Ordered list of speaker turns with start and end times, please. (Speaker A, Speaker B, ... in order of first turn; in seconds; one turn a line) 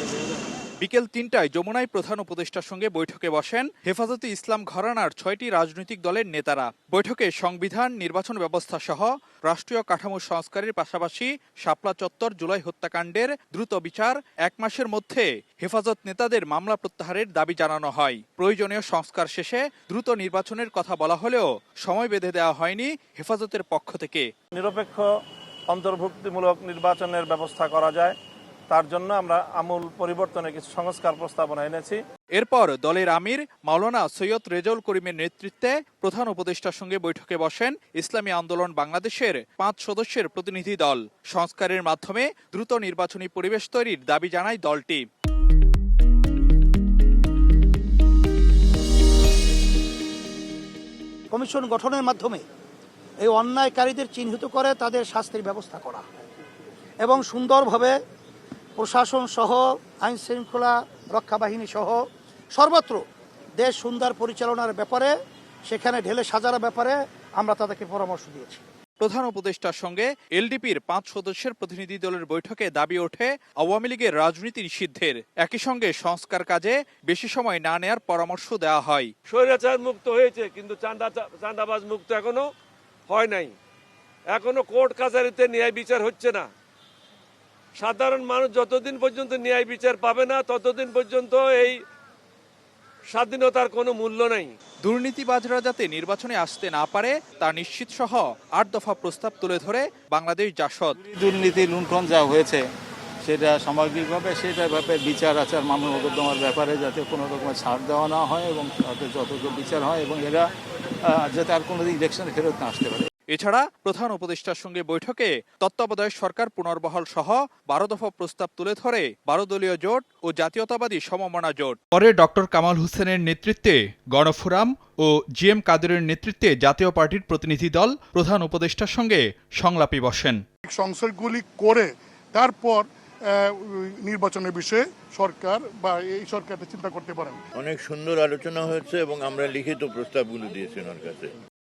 Speaker A: 0.8-24.3
Speaker B: 24.5-25.0
Speaker B: 25.7-28.2
Speaker B: 28.7-32.0
Speaker A: 32.3-45.0
Speaker C: 51.3-52.4
Speaker C: 53.2-56.0
Speaker C: 57.0-57.9
Speaker C: 58.8-62.0
Speaker C: 62.5-63.0
Speaker C: 63.6-65.1
Speaker C: 65.7-68.6
Speaker A: 69.0-79.1
Speaker D: 79.3-82.4
Speaker D: 83.1-83.5
Speaker D: 84.3-86.5
Speaker D: 87.8-91.8
Speaker D: 93.1-94.5
Speaker A: 94.8-101.0
Speaker E: 101.0-102.7
Speaker E: 103.2-113.1
Speaker A: 113.3-130.4
Speaker F: 130.7-137.4
Speaker G: 137.6-141.3